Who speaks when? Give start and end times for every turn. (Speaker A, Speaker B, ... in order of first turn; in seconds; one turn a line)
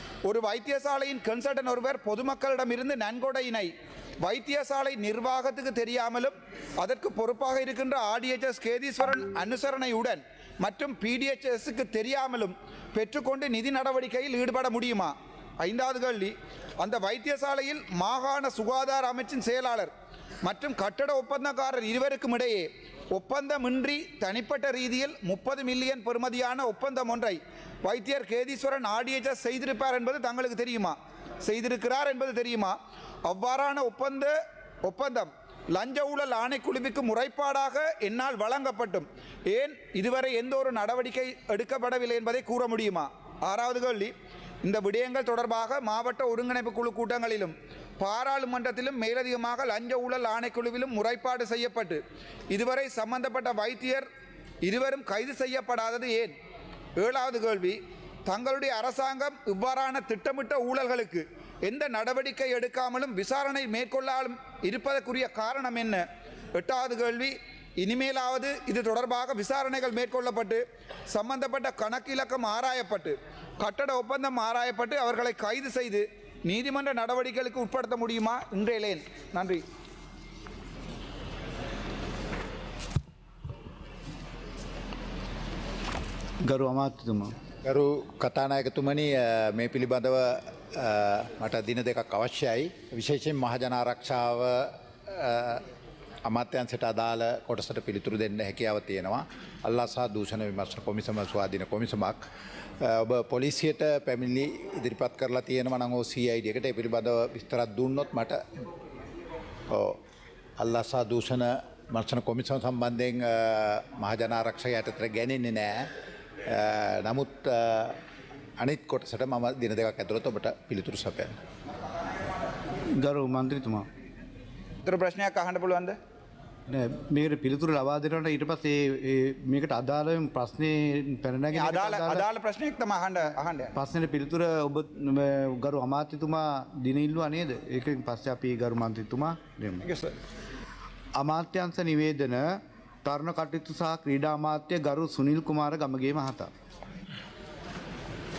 Speaker A: 0.2-19.9
Speaker A: 20.4-32.8
Speaker A: 33.3-54.0
Speaker A: 54.6-56.3
Speaker A: 57.0-79.6
Speaker B: 86.4-87.3
Speaker C: 87.6-95.6
Speaker C: 96.2-102.2
Speaker C: 102.8-108.4
Speaker C: 109.7-110.0
Speaker C: 110.6-115.9
Speaker C: 116.5-118.0
Speaker C: 118.6-121.3
Speaker B: 122.9-123.9
Speaker A: 124.8-126.0
Speaker B: 126.7-132.2
Speaker A: 131.5-133.7
Speaker B: 133.7-139.9
Speaker A: 139.8-140.2
Speaker B: 141.2-146.5